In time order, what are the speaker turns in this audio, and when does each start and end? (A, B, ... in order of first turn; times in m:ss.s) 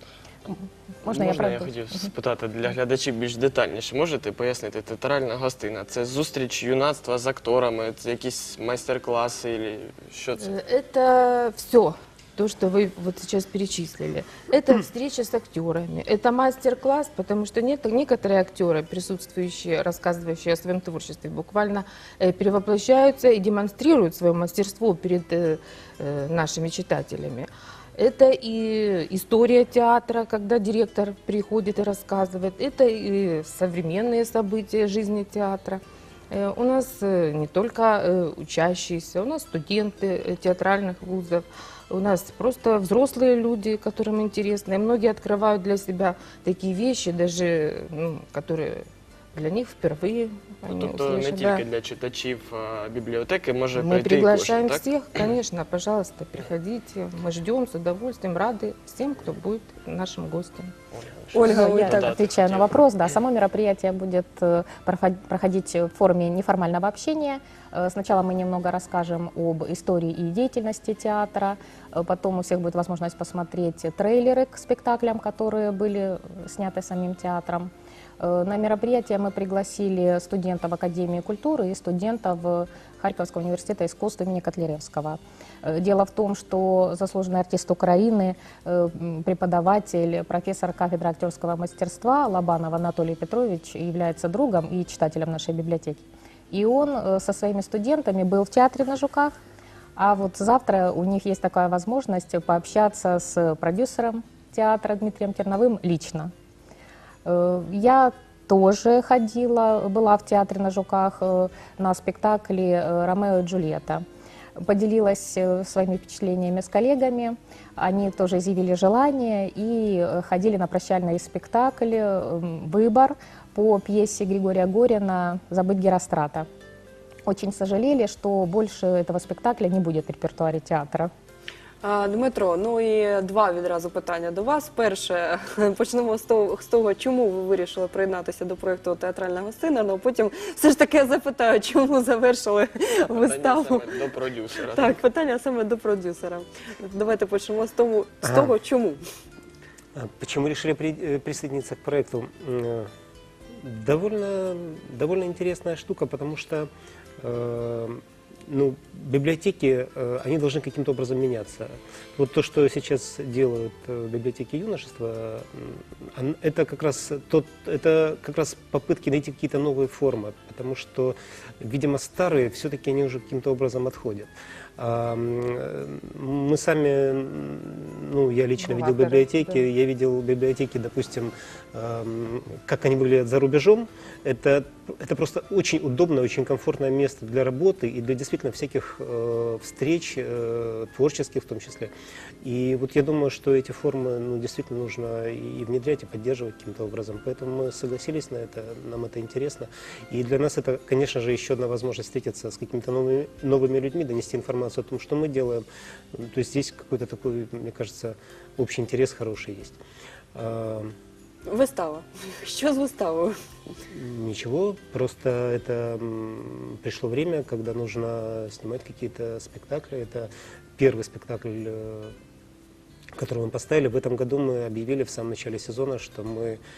0:00.5-0:02.0 A
0:01.0-0:10.5 B
0:10.4-0:51.6 C
0:50.6-0:55.3 B
0:53.7-1:00.7 C
1:01.0-1:02.7 B
1:01.3-1:02.1 D
1:01.4-1:39.4 A
1:40.0-1:46.3 A
1:47.2-1:54.0 A
1:54.6-2:06.5 A
2:07.2-2:11.1 A
2:11.8-2:23.9 D
2:23.1-2:25.0 B
2:24.7-2:29.0 D
2:28.2-2:28.5 E
2:29.9-2:32.9 E
2:33.6-3:11.9 E
2:58.6-2:59.6 C
3:12.4-3:29.8 E
3:30.3-3:30.9 E
3:31.5-3:33.3 D
3:33.9-3:42.1 E
3:43.2-3:46.6 E